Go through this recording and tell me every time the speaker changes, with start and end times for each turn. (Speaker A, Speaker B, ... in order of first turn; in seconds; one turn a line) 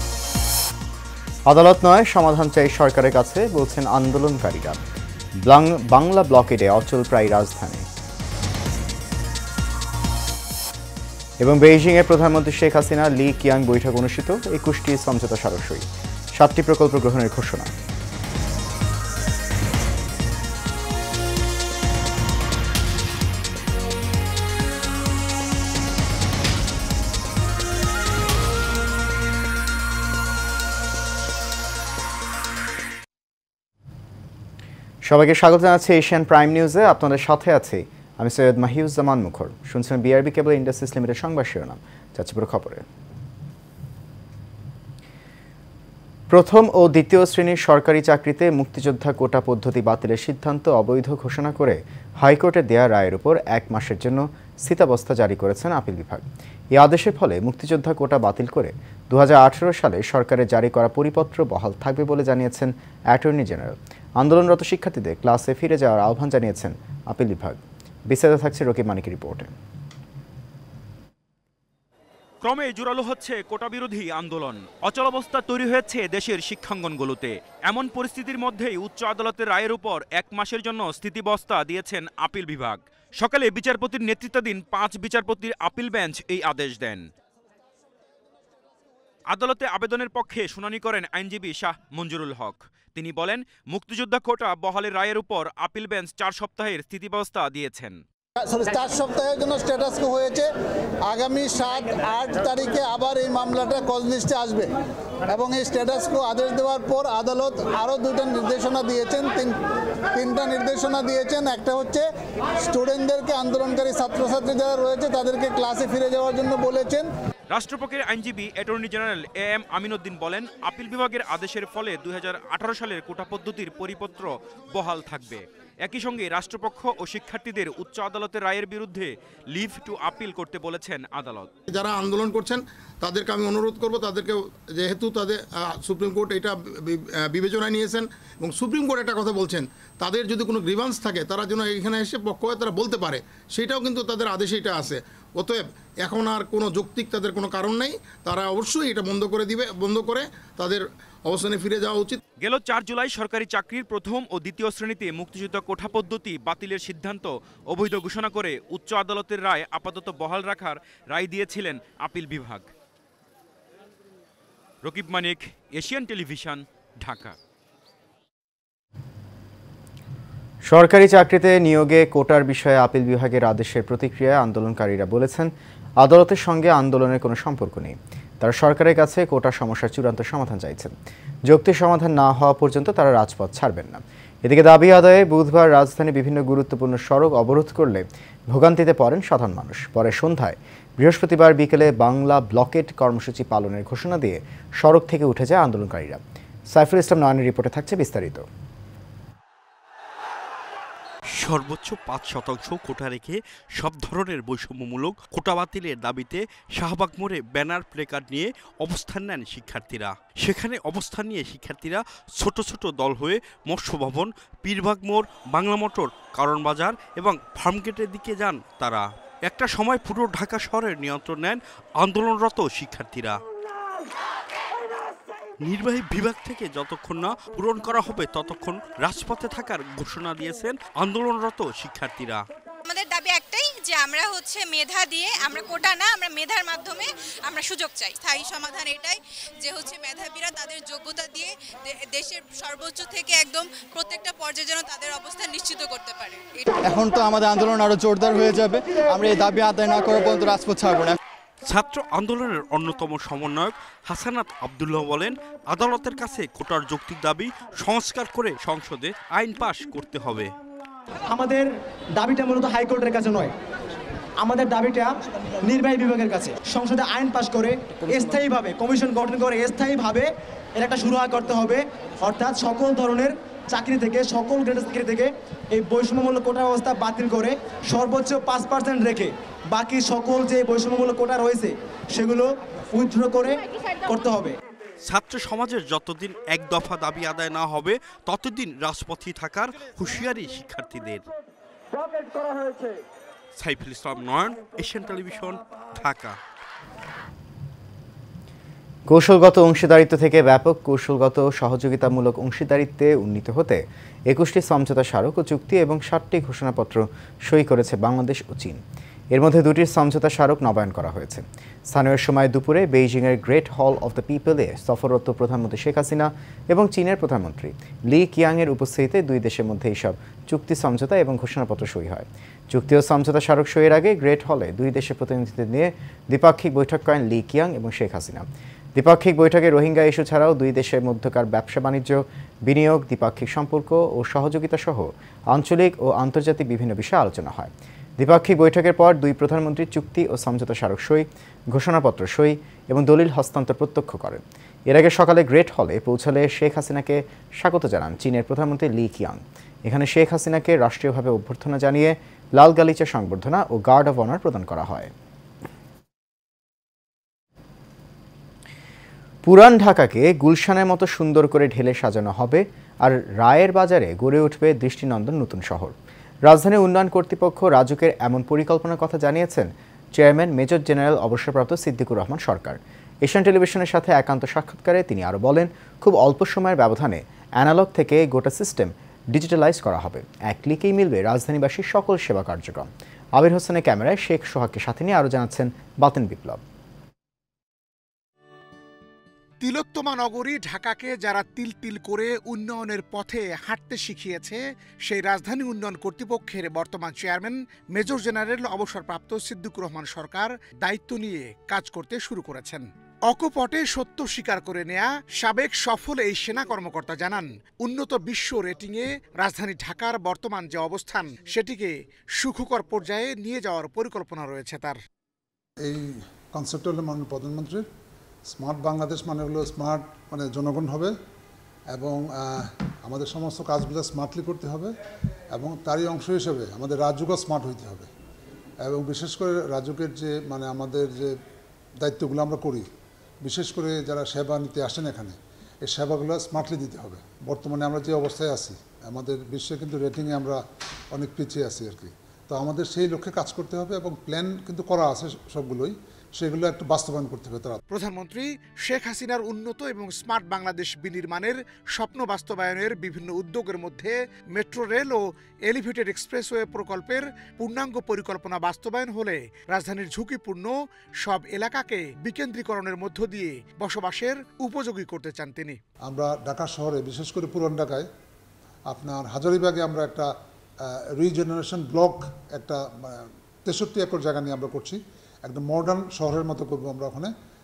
Speaker A: 1.5-4.8
Speaker A: 5.4-7.9
Speaker A: 11.4-17.7
Speaker A: 35.0-42.8
Speaker A: 46.3-69.5
Speaker B: 72.4-87.0
Speaker B: 89.3-98.0
Speaker C: 98.4-100.5
Speaker C: 101.0-104.7
Speaker C: 105.3-109.6
Speaker C: 110.1-112.1
Speaker C: 112.6-117.1
Speaker B: 117.5-131.5
Speaker D: 131.7-152.2
Speaker B: 152.4-162.7
Speaker B: 164.8-167.4
Speaker A: 170.7-180.9
Speaker A: 181.5-198.5
Speaker E: 201.3-223.4
Speaker E: 225.6-232.5
Speaker F: 232.8-246.6
Speaker G: 246.9-251.2
Speaker E: 251.6-260.5
Speaker H: 261.2-263.5
Speaker H: 264.4-284.5
Speaker E: 285.0-291.2
Speaker E: 293.6-296.4
Speaker A: 299.1-308.8
Speaker A: 309.3-355.1
Speaker A: 359.4-386.6
Speaker I: 389.6-415.0
Speaker J: 415.8-417.9
Speaker J: 418.5-421.1
Speaker J: 421.9-424.9
Speaker J: 425.5-428.1
Speaker J: 428.8-431.3
Speaker J: 432.0-432.9
Speaker J: 433.4-440.6
Speaker J: 441.1-447.8
Speaker I: 447.9-465.8
Speaker J: 466.1-468.1
Speaker J: 468.9-470.3
Speaker J: 470.9-477.3